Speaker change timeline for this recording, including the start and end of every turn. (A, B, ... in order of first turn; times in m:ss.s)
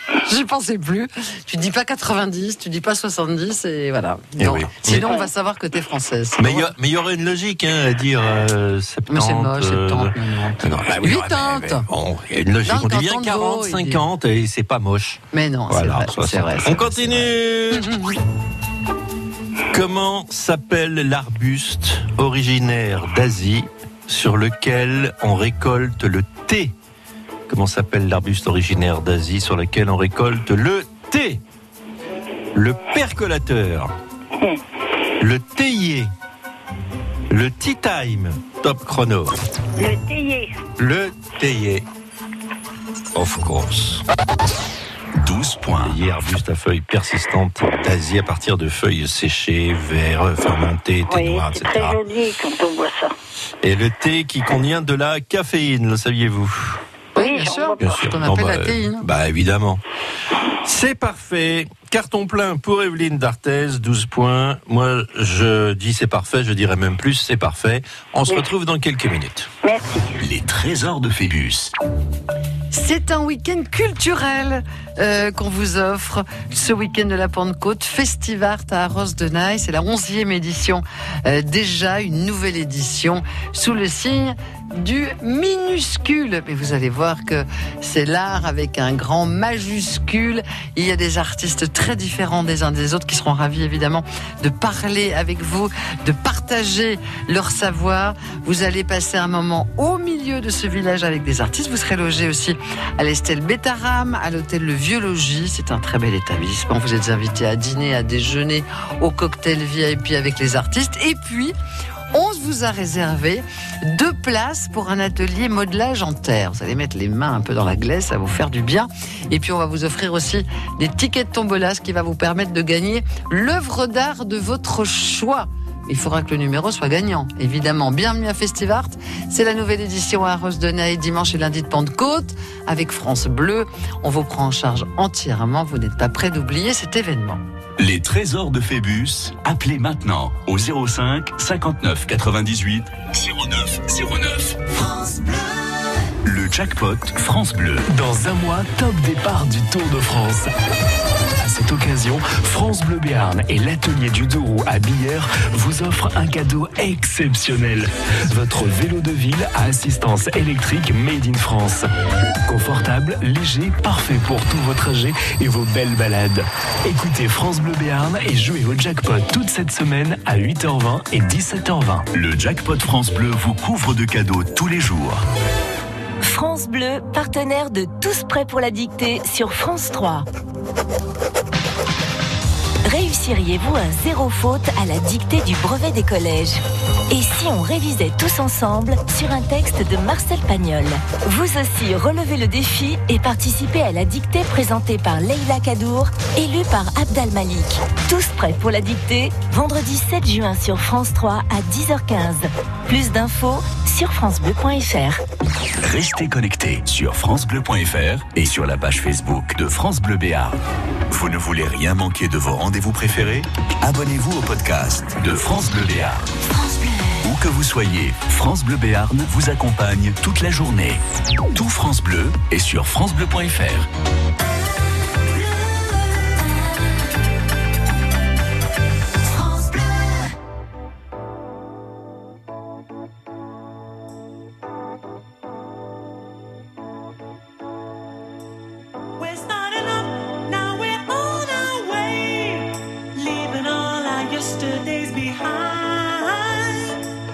0:00.2-0:06.7 A
0:04.4-0:05.1 B
0:06.4-0:18.0 B
0:09.1-0:11.9 A
0:12.6-0:14.0 A
0:15.3-0:18.1 A
0:19.7-0:26.7 B
0:27.5-0:31.4 B
0:32.6-0:33.9 B
0:35.2-0:36.1 B
0:37.3-0:39.4 B
0:39.8-0:40.5 C
0:40.8-0:41.9 B
0:43.1-0:44.0 B
0:45.2-0:46.0 D
0:45.8-0:52.0 B
0:51.1-0:53.1 C
0:53.6-0:56.8 B
0:57.1-0:58.0 C
0:57.1-0:59.1 A
0:57.8-0:59.8 B
1:00.6-1:09.5 B
1:09.6-1:10.1 C
1:10.2-1:11.7 D
1:12.7-1:51.6 A
1:52.1-2:17.4 A
2:17.8-2:24.6 D
2:26.2-2:27.9 D
2:27.9-2:30.5 E
2:31.4-2:41.9 E
2:42.4-2:52.1 E
2:52.1-2:55.2 D
2:56.2-3:00.3 F
3:02.8-3:25.2 F
3:25.8-3:36.3 D
3:37.2-3:41.0 D
3:41.5-3:43.9 D
3:59.2-4:07.0 G